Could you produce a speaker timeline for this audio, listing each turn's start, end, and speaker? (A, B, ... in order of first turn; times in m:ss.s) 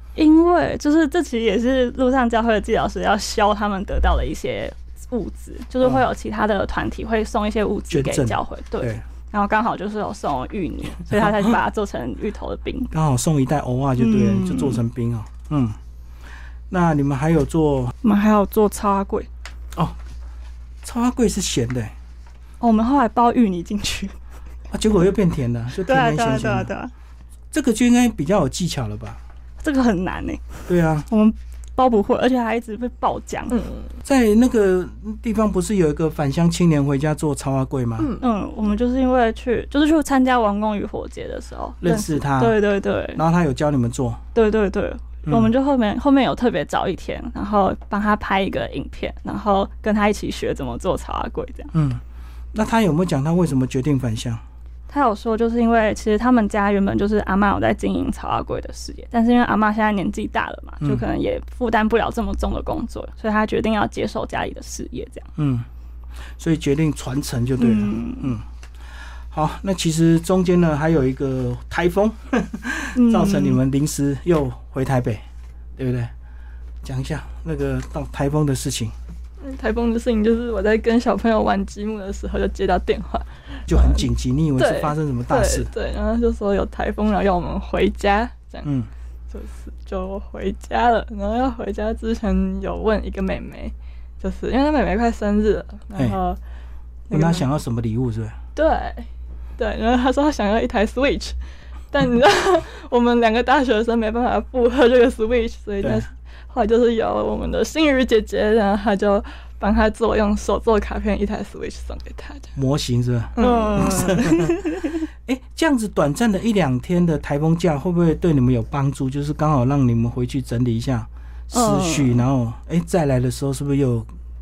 0:00.2-0:12.9 A
0:07.9-0:09.0 B
0:11.0-0:11.5 B
0:12.9-0:15.8 B
0:14.0-0:14.8 A
0:16.7-0:17.9 B
0:18.0-0:19.3 A
0:20.8-0:21.9 B
0:22.6-0:24.2 A
0:24.7-0:26.7 B
0:25.8-0:26.9 A
0:27.5-0:29.2 B
0:29.6-0:33.6 A
0:30.7-0:31.1 B
0:33.5-0:33.9 C
0:34.0-0:38.1 B
0:38.0-0:38.2 C
0:38.2-0:43.2 A
0:41.8-0:42.6 B
0:43.1-0:44.2 B
0:44.3-0:51.7 A
0:45.2-0:45.5 B
0:51.7-0:52.0 B
0:52.5-0:54.4 B
0:54.9-1:05.3 A
1:05.4-1:05.6 B
1:06.4-1:08.4 B
1:07.6-1:08.4 A
1:09.3-1:15.2 B
1:12.9-1:13.6 A
1:15.8-1:16.1 B
1:16.8-1:18.9 B
1:19.4-1:28.6 C
1:23.7-1:25.7 B
1:28.6-1:28.9 B
1:29.3-1:36.4 C
1:37.1-1:37.4 C
1:37.1-1:38.4 B
1:38.6-1:41.4 C
1:41.9-1:52.5 C
1:45.8-1:46.1 B
1:52.6-2:04.1 B
1:53.4-1:54.1 C
1:53.4-1:55.0 A
2:01.5-2:02.2 A